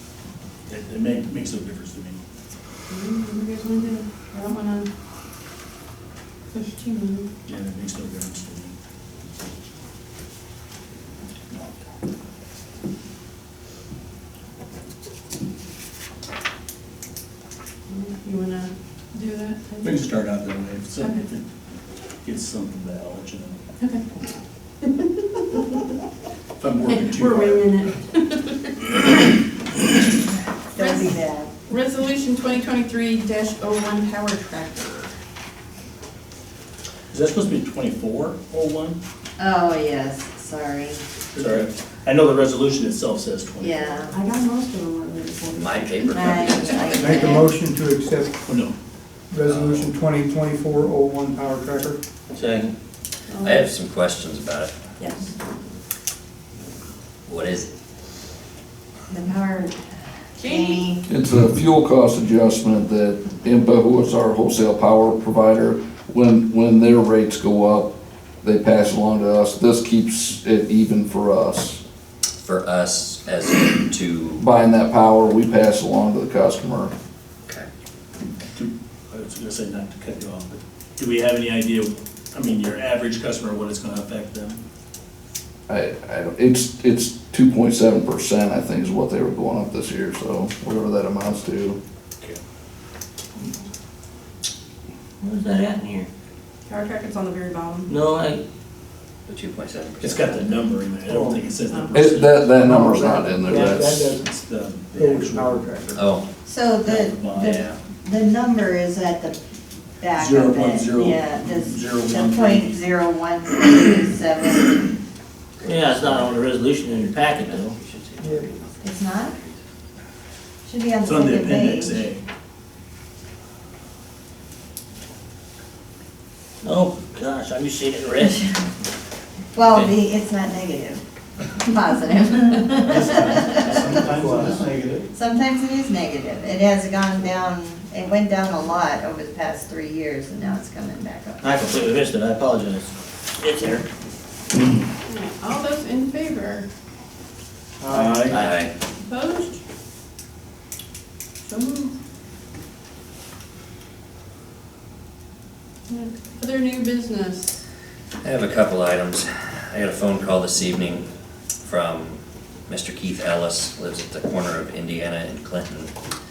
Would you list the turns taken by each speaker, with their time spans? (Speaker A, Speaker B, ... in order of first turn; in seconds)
Speaker A: 0.7-2.2, 7.5-8.7, 19.8-21.4, 22.2-23.6, 26.6-27.7, 37.1-39.0, 41.3-43.8, 48.4-48.7, 78.5-84.6, 100.0-102.5, 103.6-106.0, 106.8-107.7, 110.2-112.8, 121.0-122.2, 132.8-135.1, 147.9-148.4
Speaker B: 2.9-4.9, 6.5-7.3, 17.9-20.0, 21.0-21.2, 24.8-25.8, 26.9-28.9, 30.8-35.1, 44.1-46.8, 53.3-53.7, 55.0-55.3, 60.4-60.8, 96.7-97.9, 101.7-101.9, 145.1-146.7, 149.0-149.6, 151.4-151.9, 155.9-157.6
Speaker C: 30.7-31.5, 39.4-41.0, 43.6-44.1, 46.1-47.5, 59.1-59.9, 60.4-61.0, 106.4-109.4, 110.0-114.9, 118.8-119.3, 120.7-122.1, 129.5-131.0, 131.5-133.9, 135.1-141.4
Speaker D: 45.5-47.4, 49.4-49.9, 53.4-54.8, 57.2-57.7, 72.4-74.4, 99.3-100.5, 105.9-106.2, 107.3-107.8, 115.6-116.5, 117.0-119.6, 148.4-148.7, 158.2-161.1, 161.6-165.9
Speaker E: 47.0-48.3, 49.3-52.0, 101.1-101.4, 102.6-104.2, 104.9-106.0, 118.2-118.5, 133.8-134.5, 147.9-148.3
Speaker F: 52.3-52.7, 95.2-96.1, 97.9-98.4, 115.6-117.7, 126.6-128.5, 141.4-143.8
Speaker G: 61.1-71.8, 74.4-76.9, 85.7-91.8, 101.9-104.1